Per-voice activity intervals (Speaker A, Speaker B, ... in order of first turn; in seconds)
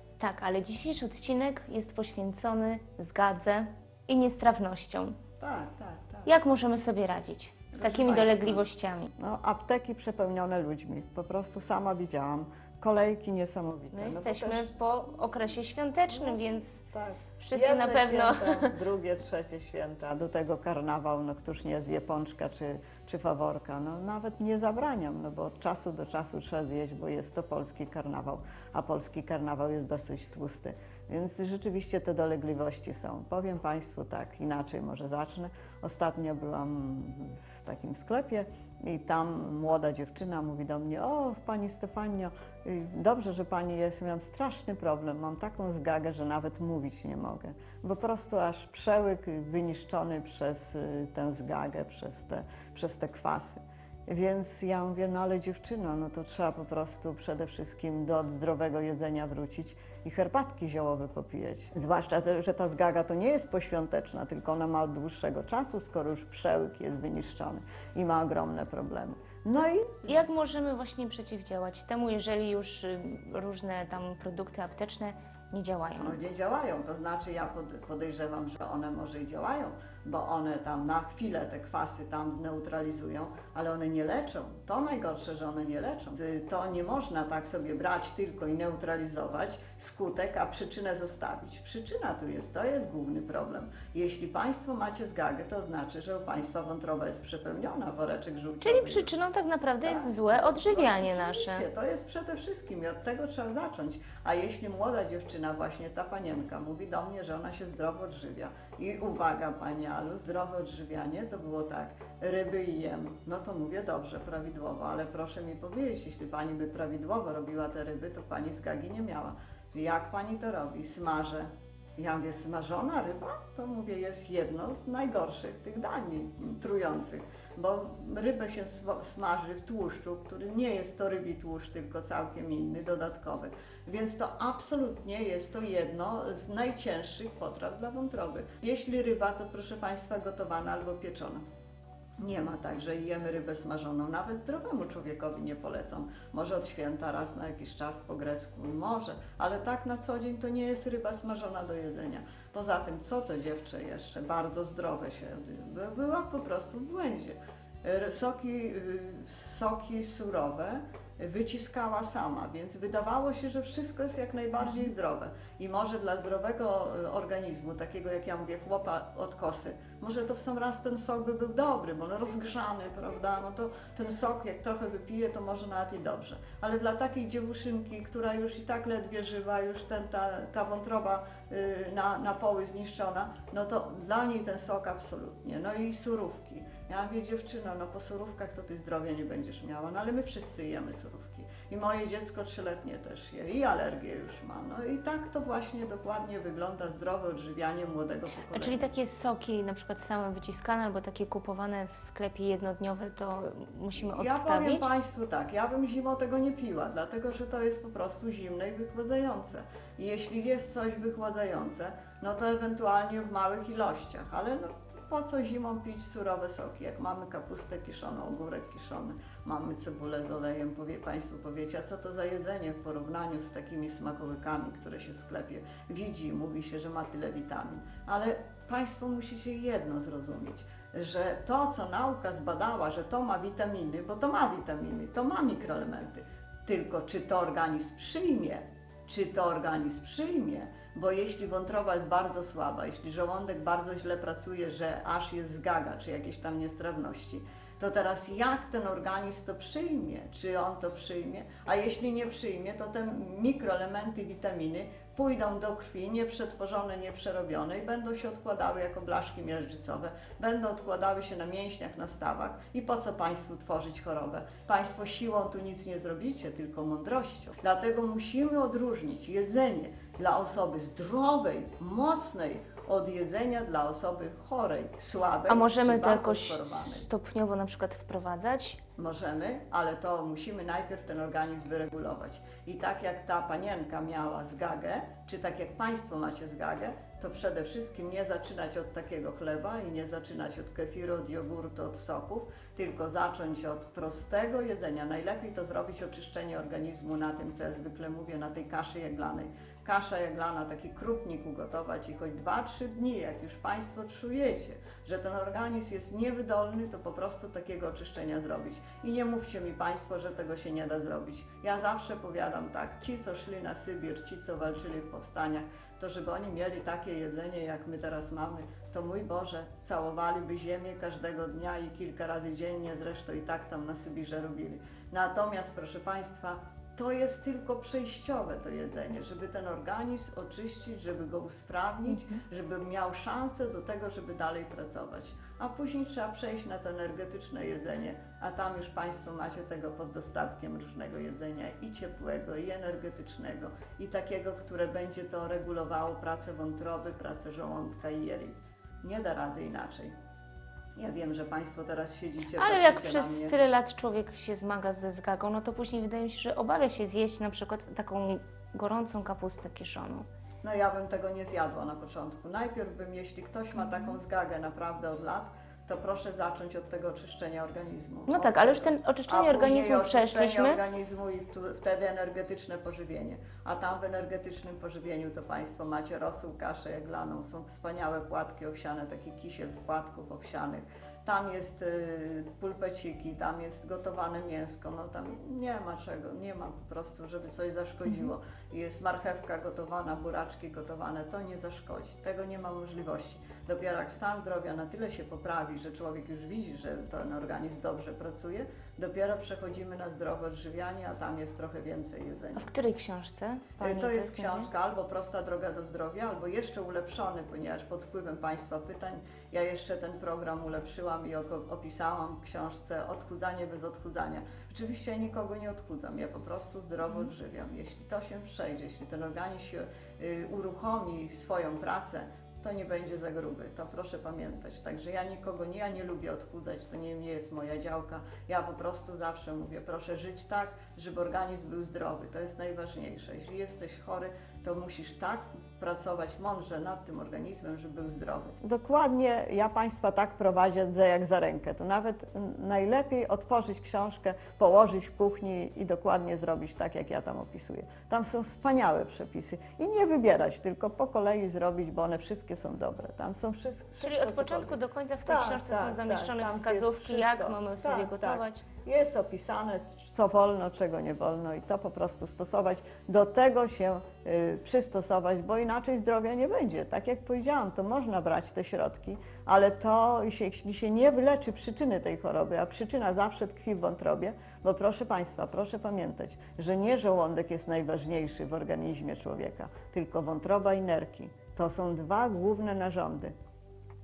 Speaker A: 0.2-5.2, 6.3-9.1, 13.9-16.8, 17.4-18.8, 70.1-76.2, 98.6-101.7, 198.5-204.9, 275.5-278.8, 352.6-360.3, 368.3-370.8, 402.6-404.7, 454.0-458.6
Speaker B: 5.4-6.3, 7.7-8.7, 9.2-14.7, 16.1-70.3, 76.0-99.2, 99.8-141.4, 142.2-198.9, 204.1-277.1, 279.0-350.1, 351.0-353.6, 360.6-402.6, 403.8-483.4